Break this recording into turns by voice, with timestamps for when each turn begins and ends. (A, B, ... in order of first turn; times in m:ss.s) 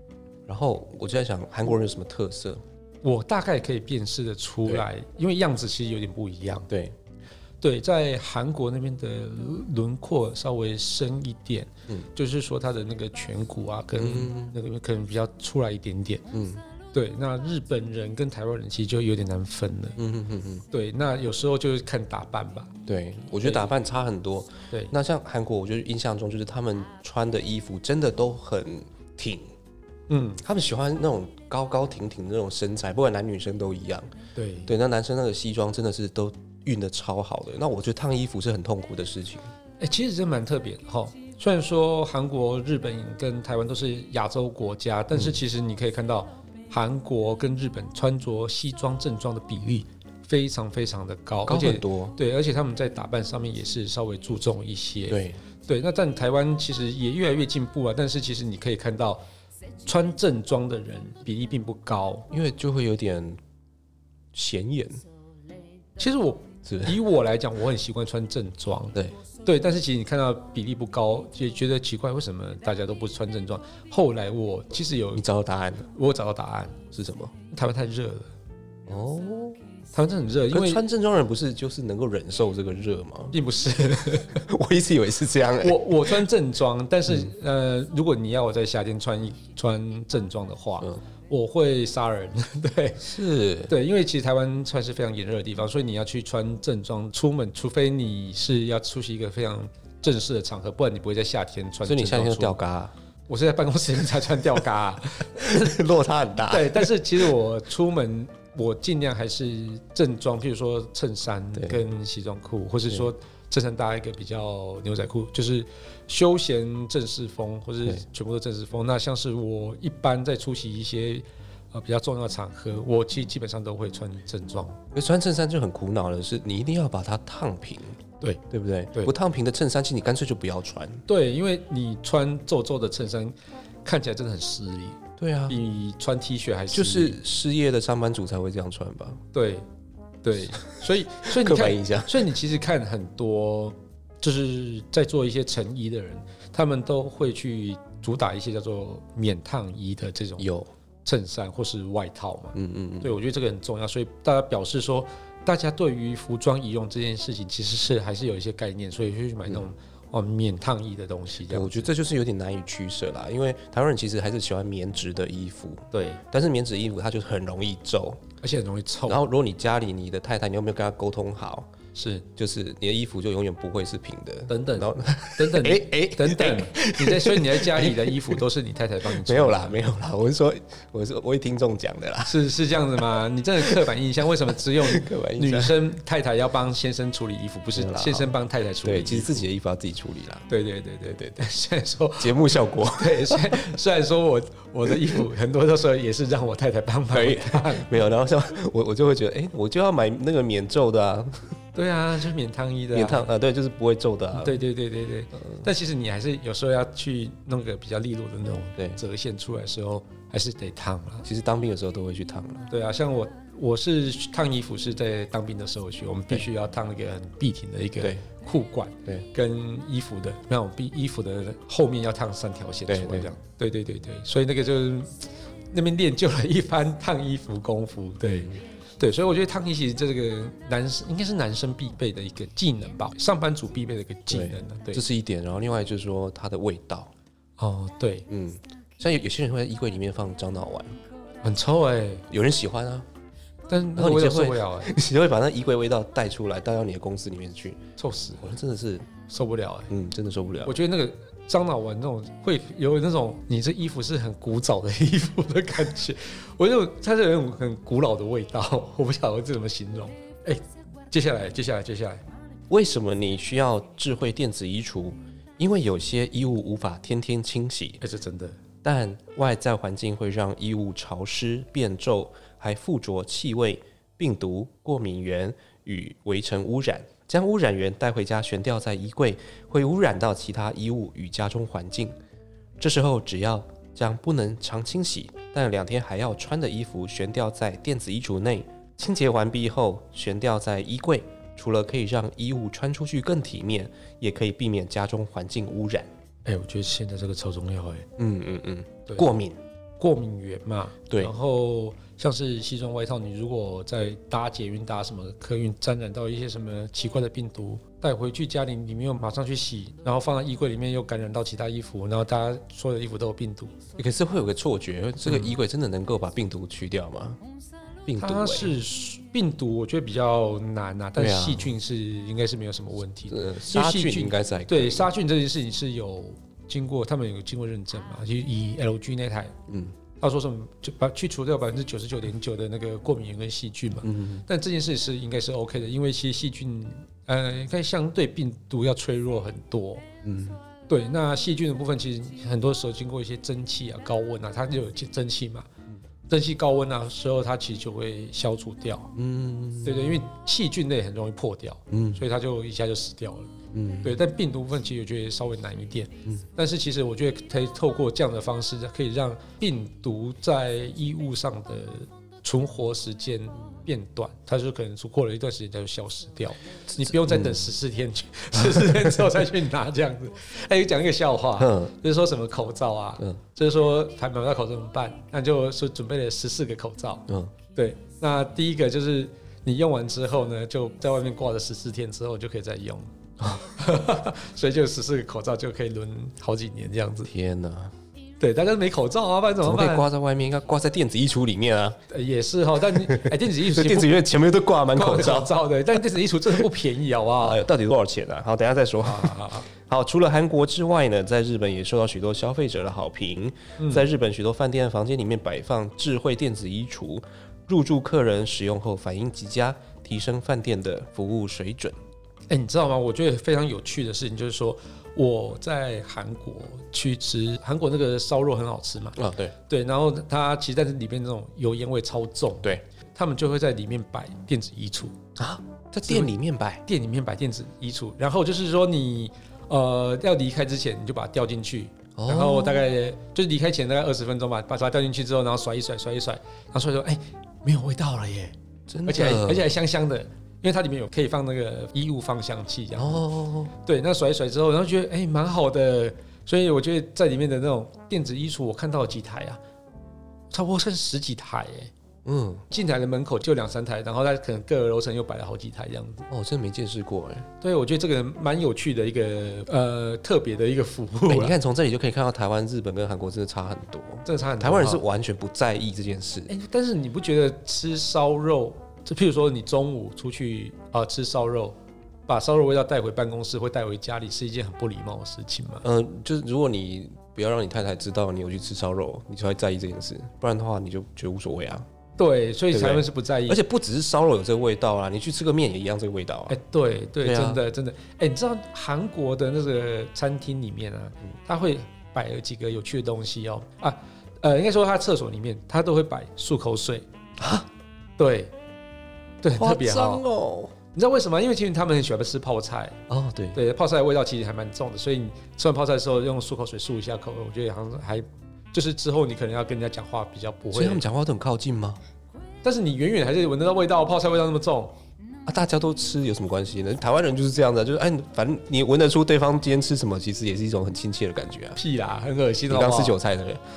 0:00.5-0:02.6 A
0:03.0-0:06.7 B
0:06.7-0:07.0 A
0:07.6-0:16.2 B
0:14.0-0:14.6 A
0:16.3-0:16.6 A
0:16.9-0:20.0 B
0:20.0-0:20.7 A
0:20.7-0:22.7 B
0:22.9-0:29.5 A
0:23.4-0:23.7 B
0:30.1-0:30.4 B
0:30.4-0:34.1 A
0:34.4-0:34.7 B
0:34.7-0:39.5 A
0:39.8-0:59.2 B
0:51.5-0:52.2 A
0:55.1-0:55.4 A
0:59.8-1:02.3 B
1:02.3-1:03.4 A
1:04.3-1:05.0 A
1:06.0-1:15.2 B
1:06.7-1:07.0 A
1:15.1-1:15.9 A
1:15.9-1:16.8 B
1:16.9-1:17.3 A
1:17.5-1:18.3 B
1:18.9-1:19.6 A
1:19.9-1:20.8 B
1:20.5-1:23.4 A
1:23.3-1:24.4 B
1:24.1-1:26.2 A
1:25.6-1:33.1 B
1:33.0-1:33.7 A
1:33.7-1:42.6 B
1:41.8-1:42.9 A
1:43.3-1:45.8 B
1:45.4-1:47.3 A
1:46.5-2:04.8 B
1:51.6-1:51.8 A
2:04.9-2:08.0 A
2:08.5-2:11.0 A
2:11.1-2:17.2 B
2:15.2-2:15.6 A
2:16.7-2:19.2 A
2:19.3-2:19.6 B
2:20.2-2:30.5 B
2:21.3-2:22.3 A
2:30.4-2:30.7 A
2:31.0-2:41.9 B
2:32.5-2:33.1 A
2:41.5-2:48.2 A
2:45.9-2:46.2 B
2:48.4-2:49.2 B
2:49.1-2:51.7 A
2:52.0-2:52.3 B
2:52.3-2:58.4 A
2:54.5-2:59.8 B
2:59.0-3:02.5 A
3:02.2-3:09.4 B
3:03.6-3:03.9 A
3:04.8-3:05.8 A
3:07.8-3:08.3 A
3:08.8-3:10.4 A
3:10.5-3:17.9 B
3:12.2-3:13.7 A
3:17.1-3:21.6 A
3:21.8-3:23.3 B
3:22.9-3:24.6 A
3:24.4-3:31.2 B
3:31.2-3:32.7 A
3:32.7-3:55.0 B
3:42.9-3:43.3 A
3:54.3-3:57.1 A
3:57.6-3:58.3 B
3:58.3-4:01.0 A
4:01.4-4:02.3 B
4:02.3-4:03.1 A
4:03.7-4:04.9 B
4:04.0-4:07.8 A
4:08.0-4:08.5 B
4:08.4-4:09.1 A
4:09.3-4:09.9 B
4:09.9-4:10.8 A
4:10.6-4:22.2 B
4:22.7-4:28.0 A
4:28.0-4:28.6 B
4:28.8-4:42.2 A
4:42.8-4:56.1 A
4:56.5-4:58.1 B
4:58.2-4:59.6 A
5:00.0-5:13.8 B
5:14.0-5:17.4 A
5:18.1-5:18.8 A
5:18.2-5:29.6 B
5:21.2-5:21.7 A
5:23.3-5:25.1 A
5:29.7-5:30.0 A
5:30.2-5:40.1 B
5:34.0-5:34.4 A
5:40.2-5:40.6 A
5:40.9-5:45.7 B
5:46.3-5:49.1 B
5:49.1-5:50.2 A
5:49.8-5:53.5 B
5:51.9-5:52.2 A
5:53.7-5:54.2 A
5:54.0-6:27.3 B
6:07.1-6:07.7 A
6:08.6-6:09.1 A
6:11.6-6:11.9 A
6:17.3-6:17.5 A
6:23.4-6:23.7 A
6:27.3-6:27.9 A
6:28.4-6:30.1 B
6:29.6-6:32.0 A
6:32.1-6:34.2 B
6:33.0-6:35.5 A
6:34.9-6:37.6 B
6:37.4-6:52.0 A
6:39.0-6:39.7 B
6:43.8-6:44.1 B
6:52.5-7:05.2 B
6:59.2-6:59.6 A
7:05.4-7:06.8 A
7:06.0-7:06.3 B
7:06.8-7:18.5 B
7:12.2-7:12.9 A
7:18.9-7:19.7 A
7:19.1-7:29.6 B
7:23.0-7:23.7 A
7:30.5-7:31.9 B
7:32.2-7:32.7 A
7:32.7-7:36.2 B
7:36.3-7:37.5 A
7:37.6-7:41.6 B
7:41.3-7:46.5 A
7:44.2-7:45.0 B
7:46.5-7:51.8 B
7:52.3-7:55.8 B
7:55.8-8:01.9 A
8:02.2-8:03.6 B
8:02.7-8:06.6 A
8:06.5-8:17.1 B
8:07.2-8:07.6 A
8:17.4-8:17.7 A
8:18.2-8:18.5 B
8:19.4-8:20.2 B
8:19.5-8:20.8 A
8:20.9-8:23.0 B
8:23.1-8:23.6 A
8:23.5-8:31.0 B
8:30.7-8:32.0 A
8:32.6-8:35.0 B
8:35.5-8:41.8 A
8:41.8-8:43.2 B
8:42.7-8:43.6 A